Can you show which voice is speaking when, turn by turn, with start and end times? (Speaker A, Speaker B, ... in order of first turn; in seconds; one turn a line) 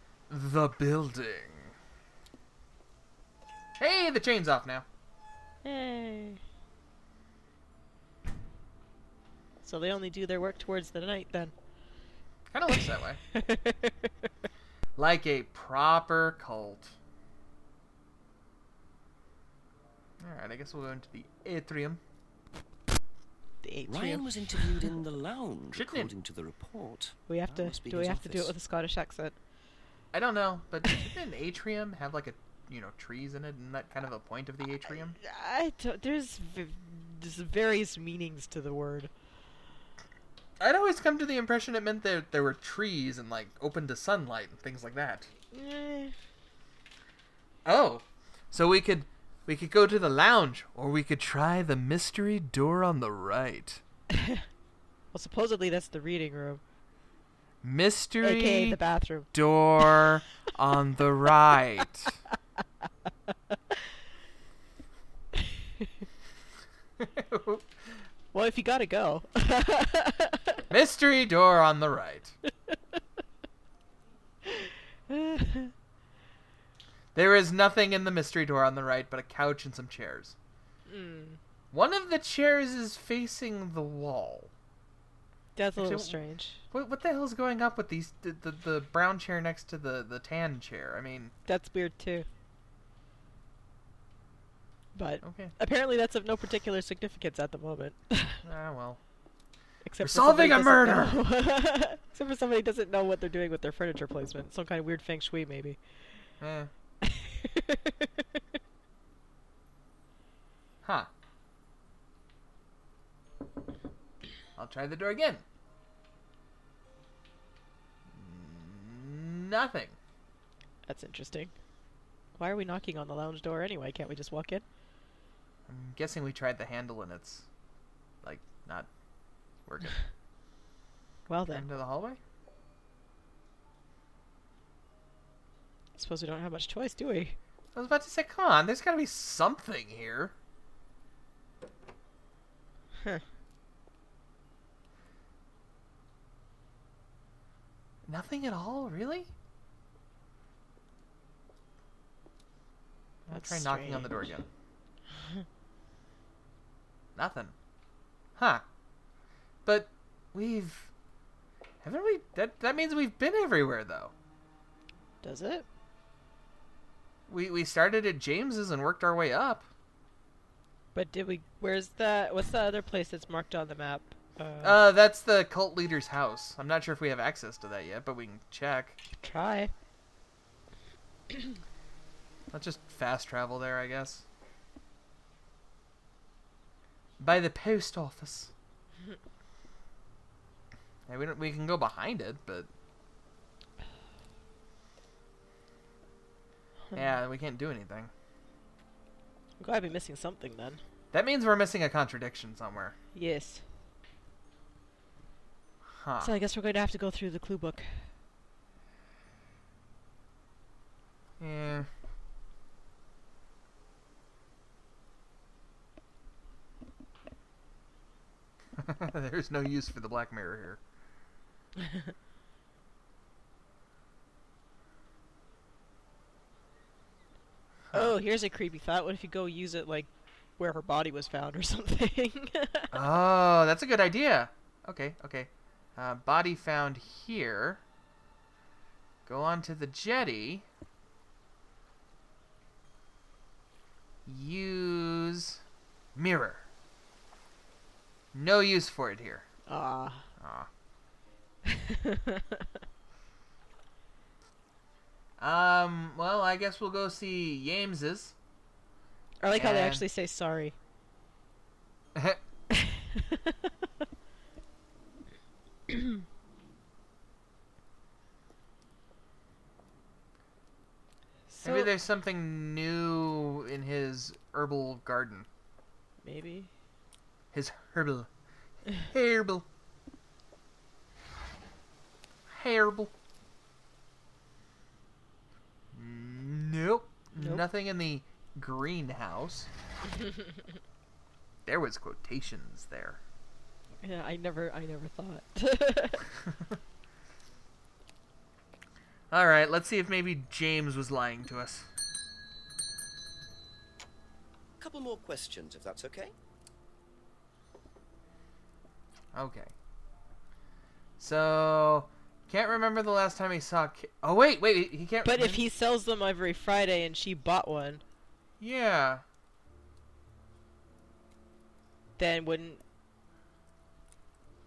Speaker A: 0.3-1.7
Speaker A: 3.8-4.9
Speaker B: 5.6-6.4
Speaker B: 9.6-11.5
Speaker A: 12.5-13.2
Speaker B: 13.4-13.9
Speaker A: 15.0-17.0
Speaker A: 20.2-22.0
Speaker B: 23.6-24.9
Speaker C: 23.9-28.5
Speaker A: 25.7-26.1
Speaker B: 27.3-29.4
Speaker A: 30.1-35.2
Speaker B: 34.9-39.1
Speaker A: 40.6-45.3
Speaker B: 45.5-46.1
Speaker A: 47.7-53.8
Speaker B: 55.1-56.6
Speaker A: 57.6-58.8
Speaker B: 58.2-60.0
Speaker A: 59.3-62.1
Speaker A: 67.0-68.1
Speaker B: 68.3-70.6
Speaker A: 70.7-72.4
Speaker B: 75.1-75.7
Speaker A: 77.2-80.4
Speaker B: 80.9-81.4
Speaker A: 81.7-84.5
Speaker B: 85.5-86.6
Speaker A: 85.8-91.3
Speaker B: 91.5-92.3
Speaker B: 94.9-98.4
Speaker A: 95.2-95.6
Speaker A: 98.4-99.0
Speaker B: 99.8-105.8
Speaker A: 100.0-101.2
Speaker A: 106.4-106.7
Speaker B: 107.0-108.0
Speaker A: 110.8-111.1
Speaker A: 114.6-115.4
Speaker A: 118.2-120.0
Speaker B: 120.9-121.5
Speaker B: 122.4-124.6
Speaker A: 125.7-127.5
Speaker A: 128.2-128.9
Speaker A: 129.7-130.0
Speaker B: 131.3-131.7
Speaker A: 131.5-132.2
Speaker B: 135.9-137.4
Speaker A: 137.7-140.3
Speaker A: 148.1-149.3
Speaker A: 153.3-154.5
Speaker B: 153.3-154.3
Speaker A: 157.2-157.5
Speaker A: 158.4-158.6
Speaker A: 159.7-160.9
Speaker A: 161.8-164.1
Speaker B: 165.2-165.7
Speaker A: 167.3-169.7
Speaker B: 170.9-174.8
Speaker A: 174.6-179.0
Speaker B: 179.2-179.7
Speaker A: 182.5-184.3
Speaker A: 187.2-188.5
Speaker A: 191.1-192.7
Speaker A: 196.9-198.1
Speaker B: 199.6-200.8
Speaker A: 201.1-202.9
Speaker B: 203.1-203.6
Speaker A: 205.9-206.3
Speaker B: 206.2-208.1
Speaker A: 211.4-211.9
Speaker A: 218.8-220.8
Speaker B: 227.9-232.9
Speaker A: 232.9-237.8
Speaker A: 239.3-240.7
Speaker A: 244.3-245.6
Speaker A: 246.2-246.7
Speaker A: 248.3-249.5
Speaker B: 249.7-250.3
Speaker A: 250.4-250.7
Speaker B: 252.1-252.4
Speaker A: 255.4-258.4
Speaker B: 259.4-260.8
Speaker A: 259.6-260.1
Speaker B: 271.5-272.0
Speaker A: 271.6-275.5
Speaker B: 276.2-276.7
Speaker A: 277.5-278.3
Speaker A: 278.9-279.6
Speaker A: 282.5-283.1
Speaker A: 285.9-289.7
Speaker B: 287.4-287.7
Speaker A: 291.7-293.2
Speaker B: 294.0-296.3
Speaker A: 299.3-301.9
Speaker C: 304.8-306.3
Speaker A: 309.3-309.7
Speaker A: 311.2-315.7
Speaker B: 315.2-318.0
Speaker A: 318.6-319.2
Speaker B: 322.2-322.8